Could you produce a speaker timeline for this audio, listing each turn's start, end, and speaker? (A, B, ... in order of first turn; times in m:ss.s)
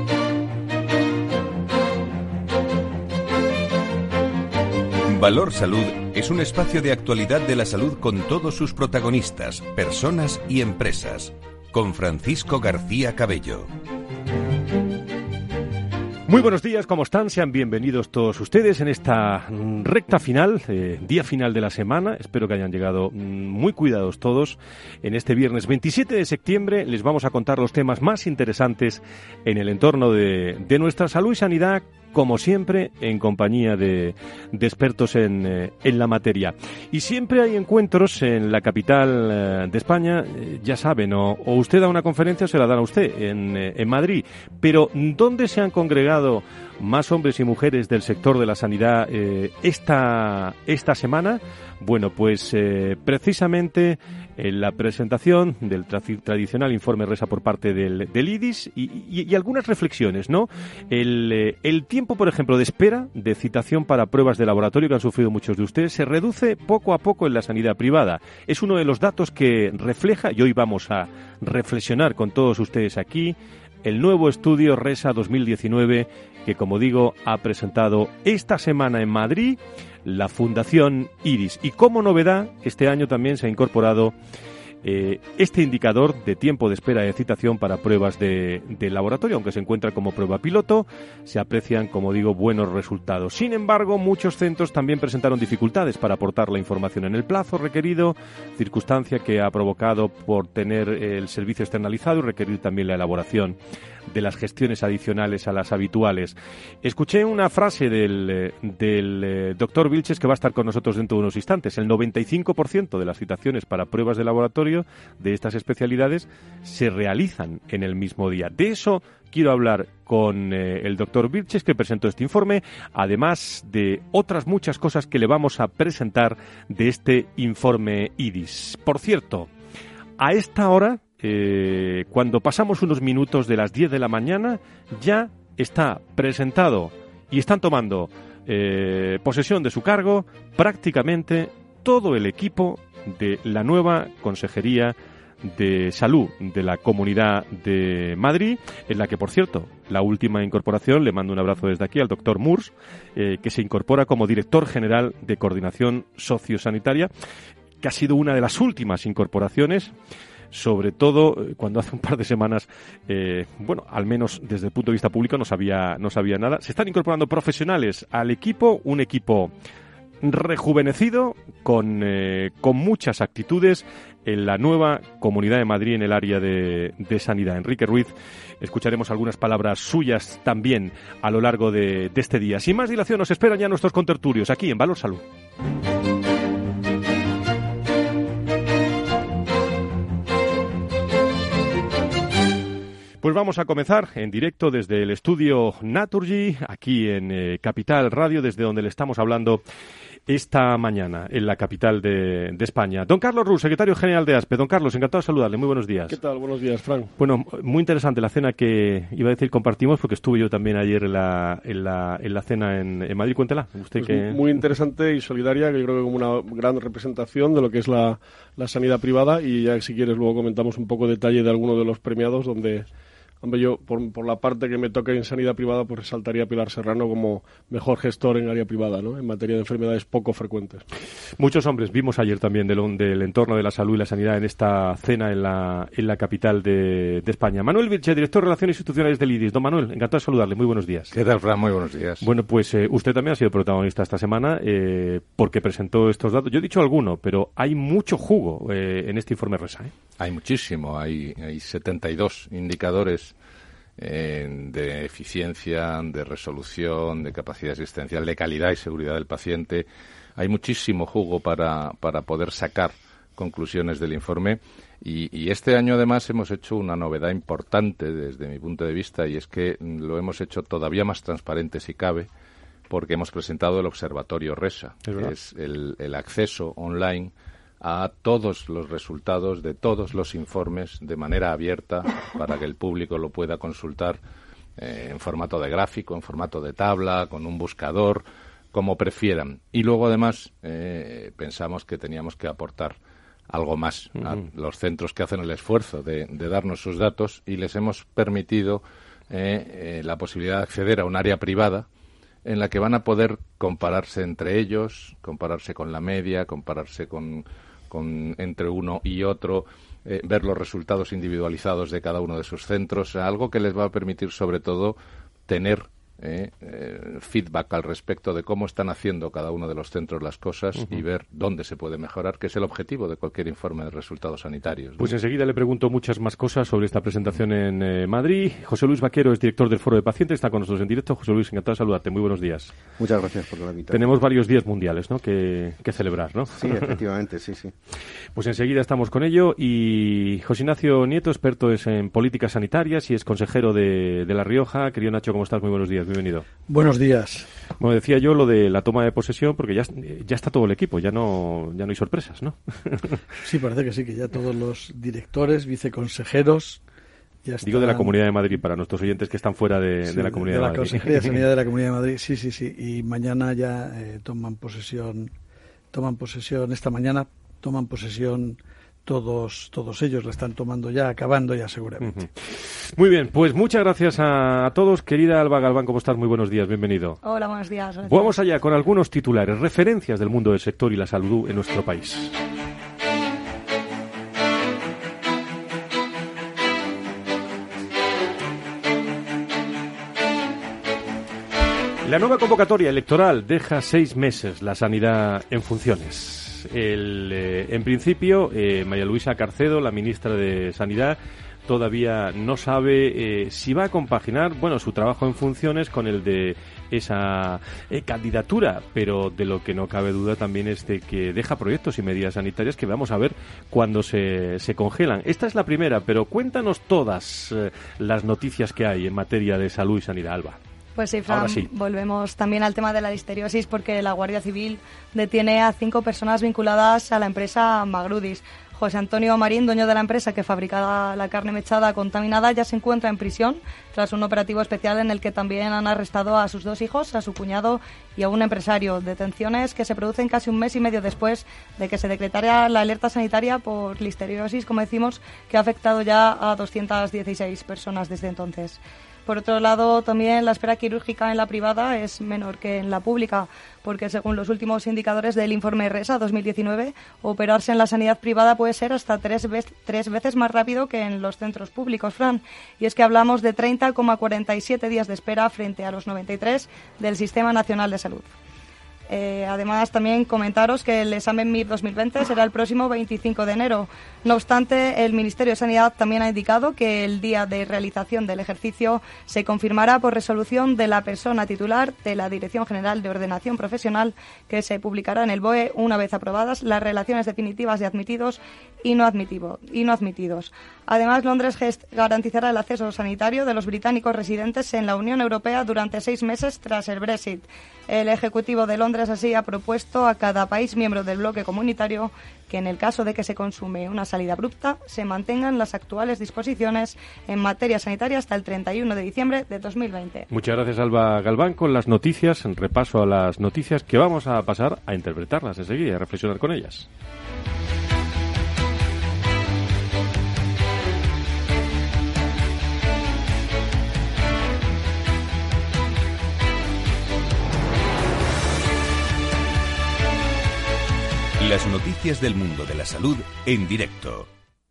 0:05.1-0:13.7 A
0:16.3-1:24.1 B
1:24.8-1:43.6 B
1:44.1-2:09.5 B
2:10.2-2:37.1 B
2:37.8-2:39.9 B
2:40.5-2:49.5 B
2:50.2-3:05.2 B
3:13.2-3:19.6 B
3:20.3-3:26.2 B
3:26.1-3:27.1 C
3:27.2-3:34.4 B
3:34.0-3:42.9 C
3:43.4-3:50.8 C
3:51.4-4:01.1 B
4:01.1-4:02.2 D
4:02.2-4:09.9 B
4:10.2-4:13.3 D
4:14.0-4:32.3 D
4:32.9-4:44.2 D
4:35.0-4:35.3 B
4:44.8-4:53.0 D
4:53.5-5:01.9 D
5:02.4-5:15.0 D
5:15.5-5:25.1 D
5:25.0-5:32.7 B
5:33.0-5:34.1 E
5:33.9-5:36.9 B
5:36.5-5:37.7 E
5:38.3-5:46.4 B
5:46.7-5:47.4 F
5:47.8-5:53.2 B
5:53.4-5:56.8 F
5:57.4-5:58.1 F
5:57.6-6:01.5 B
6:00.1-6:05.3 F
6:05.9-6:12.2 F
6:12.1-6:17.2 B
6:17.2-6:18.3 G
6:18.0-6:22.4 B
6:32.0-7:00.6 B
7:01.0-7:48.3 G
7:01.3-7:01.7 B
7:49.1-8:30.2 G
8:30.3-8:36.9 B
8:51.4-8:54.3 A